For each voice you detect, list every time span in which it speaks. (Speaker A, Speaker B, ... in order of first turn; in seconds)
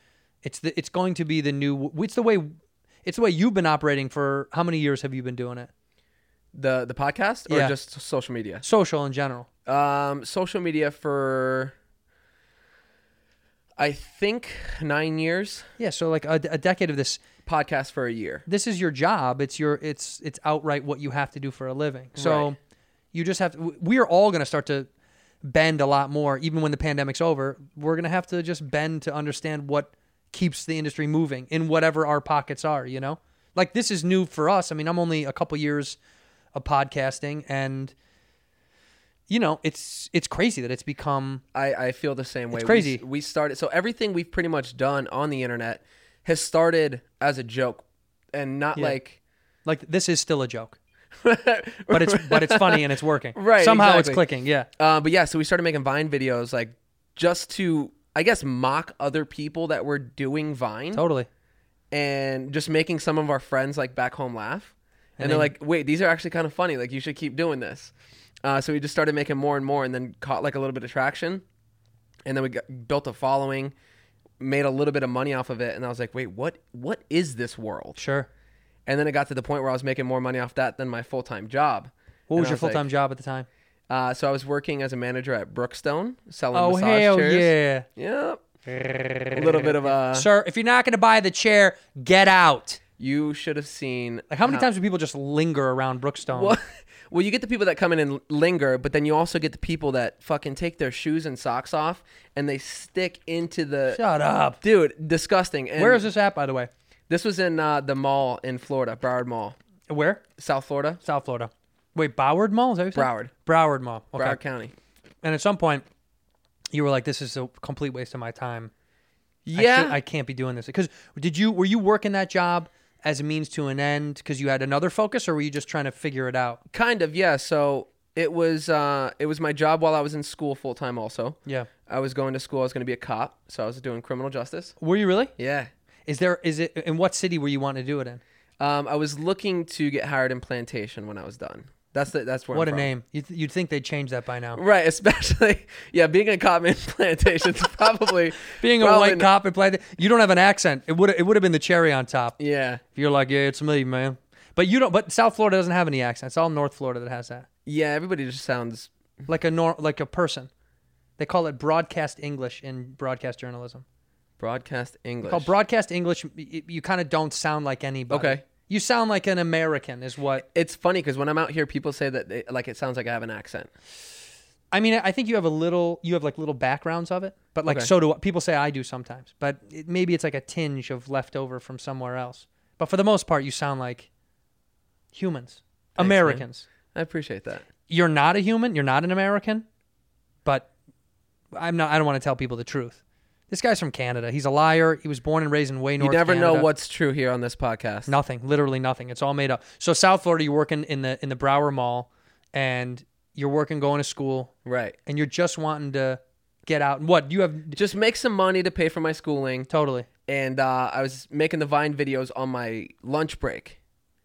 Speaker A: 0.4-2.5, 3.0-5.7, 7.5-7.7, 8.6-9.5, 15.8-17.2, 18.5-22.6, 23.1-24.9, 25.4-36.0, 36.5-37.9, 39.3-41.4, 42.5-43.0, 49.6-50.8, 51.9-54.7, 60.9-61.3, 65.2-65.5, 78.0-78.3, 82.3-83.5, 86.5-87.8, 88.7-92.8, 94.3-96.6, 103.9-104.6, 105.8-106.7, 109.9-110.2, 111.0-114.4, 115.2-115.8, 116.7-118.7, 119.5-126.6, 134.8-135.3, 136.1-138.2, 142.5-144.6, 148.5-152.4, 152.9-157.4, 159.3-160.5, 161.2-163.8, 165.2-170.4, 174.7-184.1, 185.1-186.7, 187.9-189.7, 191.5-196.7, 198.1-204.5, 205.1-207.8, 209.7-210.1
Speaker B: 6.5-8.6, 9.7-11.7, 13.8-15.7, 17.4-18.4, 22.1-22.5, 41.5-49.2, 51.2-54.2, 54.8-61.0, 61.9-67.9, 68.4-71.4, 72.2-73.7, 74.4-78.0, 78.8-82.8, 83.9-88.4, 89.3-90.3, 93.0-94.7, 96.3-104.0, 104.6-106.0, 107.1-109.5, 110.4-111.0, 112.9-113.3, 114.2-114.7, 119.4-120.0, 126.7-134.8, 135.4-135.7, 138.6-142.9, 144.5-149.3, 152.4-152.8, 157.7-158.9, 164.4-165.5, 168.1-168.4, 170.4-173.7, 186.0-187.7, 196.0-198.1, 204.6-205.0, 207.7-209.7, 210.3-213.8